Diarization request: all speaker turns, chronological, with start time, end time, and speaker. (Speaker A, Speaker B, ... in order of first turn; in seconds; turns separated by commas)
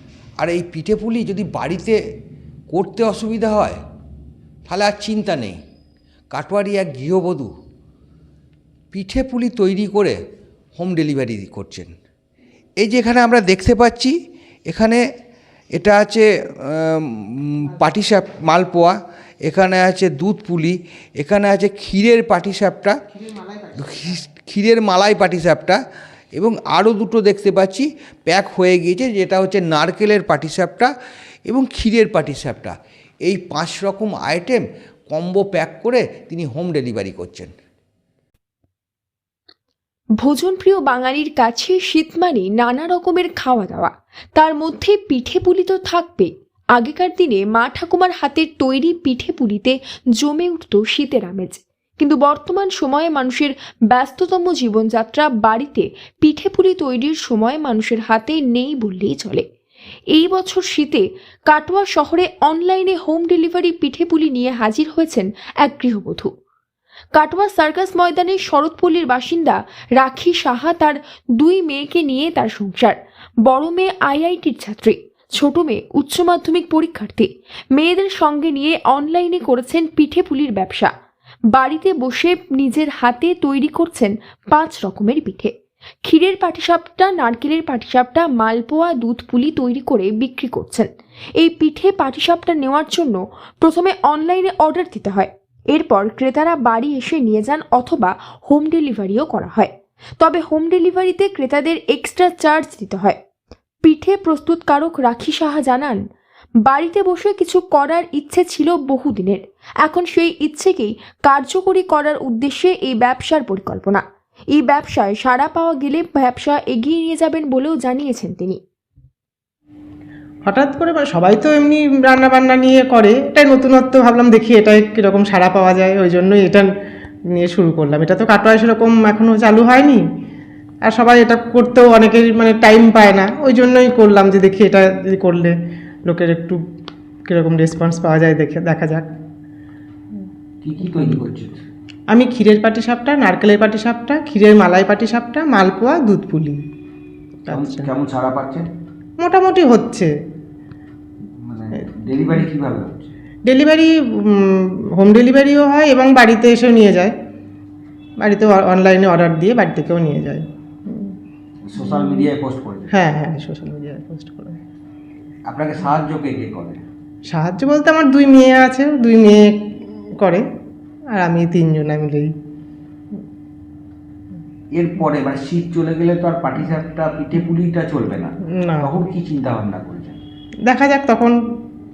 Speaker A: 0.4-1.9, Speaker A: 2.7-3.8, Speaker A: 4.7-5.6, Speaker A: 6.3-7.5, Speaker A: 8.9-10.1, Speaker A: 10.8-11.9, Speaker A: 12.8-14.1, Speaker A: 14.7-15.0, Speaker A: 15.7-22.9, Speaker A: 23.7-25.8, Speaker A: 26.3-30.9, Speaker A: 31.5-37.5, Speaker B: 40.2-59.4, Speaker B: 60.1-66.3, Speaker B: 67.1-80.9, Speaker B: 81.5-85.5, Speaker B: 86.0-103.2, Speaker B: 103.8-106.0, Speaker B: 106.6-114.0, Speaker B: 114.5-118.6, Speaker C: 120.5-126.7, Speaker C: 127.3-130.0, Speaker C: 130.8-135.5, Speaker C: 136.1-136.6, Speaker C: 137.3-139.1, Speaker A: 140.6-141.6, Speaker C: 140.9-141.2, Speaker C: 142.1-146.6, Speaker C: 147.4-147.9, Speaker A: 147.5-148.7, Speaker C: 149.2-150.1, Speaker A: 151.4-153.1, Speaker C: 152.1-152.4, Speaker C: 153.4-157.1, Speaker C: 158.2-161.1, Speaker A: 161.6-163.0, Speaker C: 161.8-162.3, Speaker C: 162.9-164.6, Speaker A: 165.5-166.8, Speaker C: 167.3-169.7, Speaker C: 171.2-172.3, Speaker A: 174.7-180.2, Speaker C: 178.5-178.9, Speaker C: 180.7-181.3